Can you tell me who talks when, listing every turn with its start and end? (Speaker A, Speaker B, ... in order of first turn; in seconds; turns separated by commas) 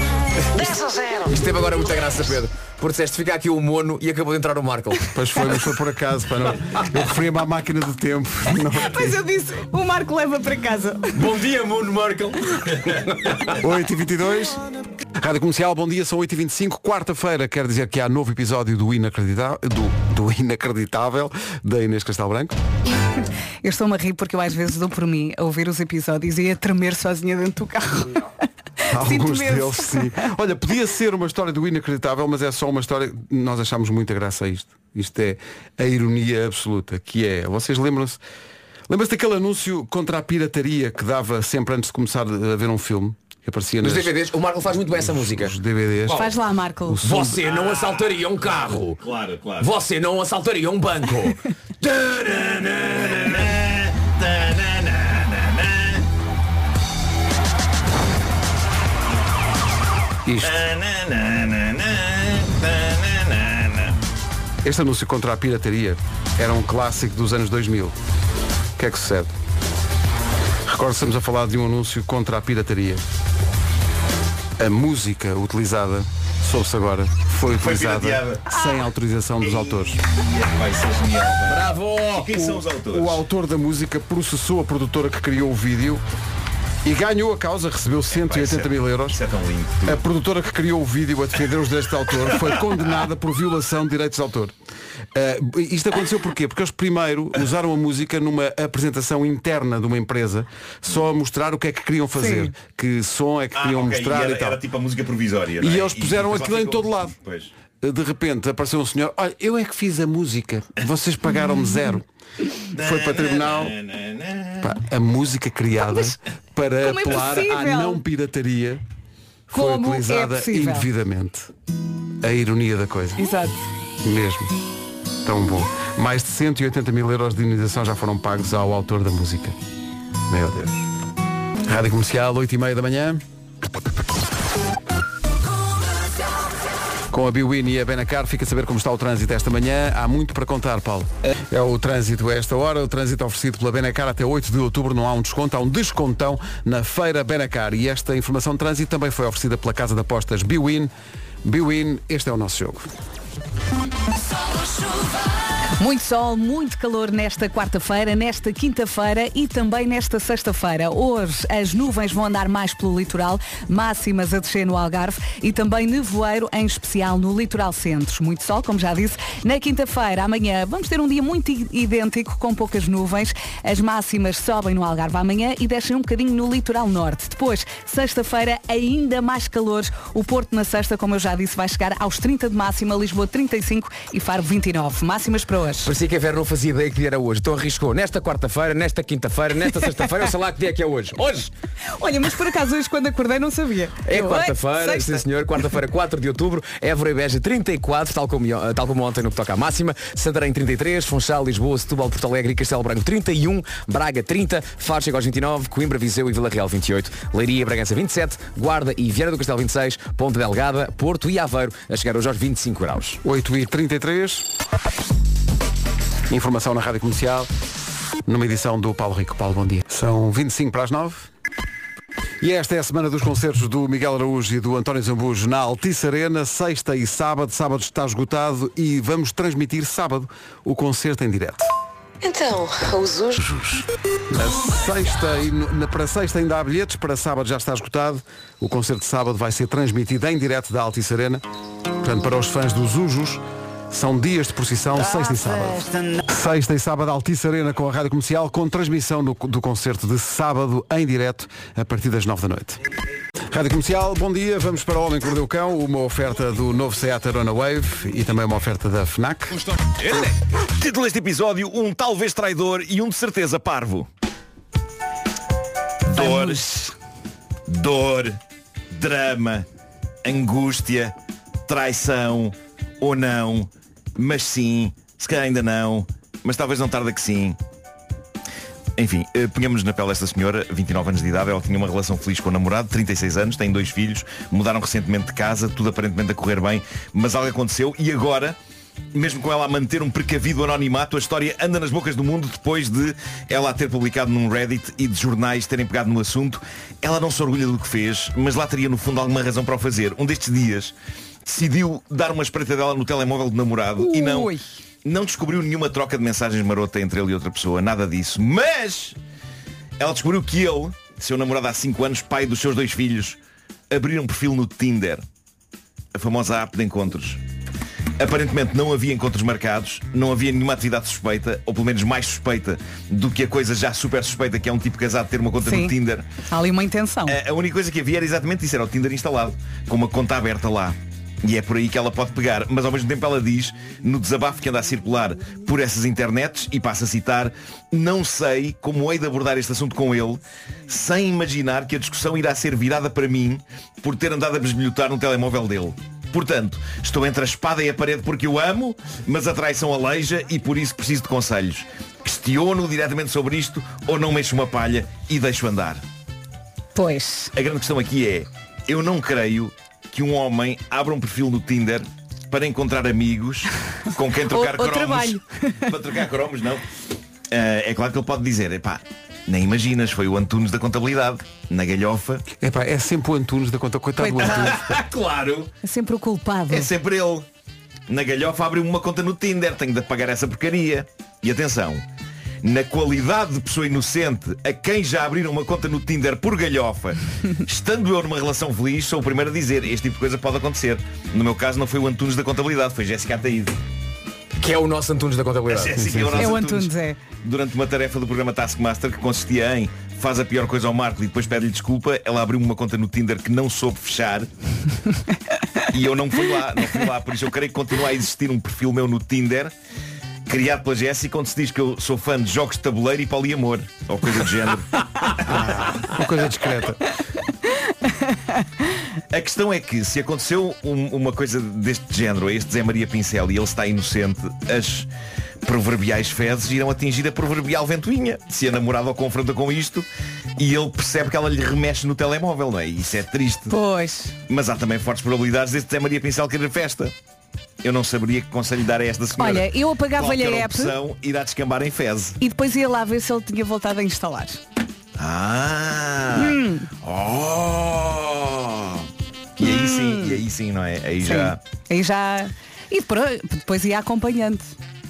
Speaker A: 0.5-1.4, Speaker B: 1.3-5.1, Speaker C: 5.1-9.2, Speaker D: 8.9-11.2, Speaker B: 11.1-13.6, Speaker C: 13.6-14.6, Speaker C: 15.2-22.6, Speaker D: 23.6-28.3, Speaker D: 28.9-30.3, Speaker C: 28.9-38.2, Speaker C: 38.9-44.1, Speaker B: 43.8-45.5, Speaker C: 45.1-46.3, Speaker B: 46.1-46.4, Speaker D: 46.1-47.0, Speaker C: 46.9-47.4, Speaker B: 47.0-49.0, Speaker E: 47.5-48.0, Speaker E: 49.0-49.7, Speaker B: 49.6-51.4, Speaker E: 51.8-56.0, Speaker C: 60.3-60.6, Speaker E: 60.4-63.9, Speaker C: 64.6-68.0, Speaker C: 68.8-69.3, Speaker C: 70.7-73.0, Speaker C: 74.6-80.0, Speaker E: 77.6-78.4, Speaker E: 79.4-83.2, Speaker B: 81.5-82.5, Speaker C: 82.9-86.0, Speaker C: 86.8-89.2, Speaker E: 88.1-90.0, Speaker C: 89.9-94.5, Speaker C: 95.1-104.6, Speaker D: 102.2-102.5, Speaker E: 103.6-107.5, Speaker C: 105.6-107.2, Speaker C: 107.8-112.1, Speaker E: 112.8-114.7, Speaker C: 112.8-113.7, Speaker C: 114.6-118.8, Speaker D: 116.8-118.0, Speaker C: 119.5-121.5, Speaker D: 119.5-120.9, Speaker C: 122.2-123.2, Speaker D: 123.2-123.6, Speaker C: 124.0-124.5, Speaker C: 125.2-129.6, Speaker C: 130.3-130.9, Speaker C: 131.7-133.2, Speaker C: 137.1-150.9, Speaker C: 151.4-152.9, Speaker D: 155.8-185.9, Speaker B: 185.8-191.5, Speaker D: 192.0-195.2, Speaker B: 194.1-213.2, Speaker C: 213.2-214.5, Speaker C: 216.3-217.5, Speaker C: 218.3-221.3, Speaker C: 222.4-231.7, Speaker A: 232.2-233.8, Speaker C: 234.3-241.4, Speaker C: 242.0-252.8, Speaker C: 253.5-259.6, Speaker E: 260.0-264.1, Speaker E: 266.1-266.9, Speaker D: 266.1-266.8, Speaker E: 267.7-268.4, Speaker E: 268.9-269.7, Speaker E: 270.2-271.1, Speaker E: 271.7-277.6, Speaker E: 279.0-288.6, Speaker E: 289.1-300.9, Speaker E: 301.4-309.2, Speaker D: 304.0-304.7, Speaker E: 310.0-313.4, Speaker E: 313.9-315.2, Speaker E: 316.1-317.4, Speaker E: 318.2-326.3, Speaker D: 325.6-325.9, Speaker D: 326.5-327.4, Speaker E: 327.3-356.0, Speaker D: 356.9-357.5, Speaker E: 357.6-366.8, Speaker D: 364.5-365.9, Speaker E: 367.5-372.4, Speaker C: 372.6-375.0, Speaker D: 374.2-374.8, Speaker E: 374.4-375.7, Speaker D: 375.8-376.9, Speaker E: 376.7-377.4, Speaker E: 378.1-382.0, Speaker E: 382.6-393.8, Speaker B: 394.6-396.0, Speaker E: 395.7-404.5, Speaker C: 395.9-396.6, Speaker D: 396.4-397.2, Speaker E: 405.9-409.7, Speaker E: 410.5-416.2, Speaker C: 415.4-417.1, Speaker E: 419.3-425.1, Speaker E: 425.6-433.8, Speaker D: 433.7-434.4, Speaker E: 434.5-437.1, Speaker E: 437.8-442.4, Speaker D: 439.4-441.0, Speaker D: 442.4-444.6, Speaker E: 445.2-449.1, Speaker D: 446.3-446.9, Speaker E: 449.6-451.6, Speaker D: 449.6-450.4, Speaker D: 451.2-454.7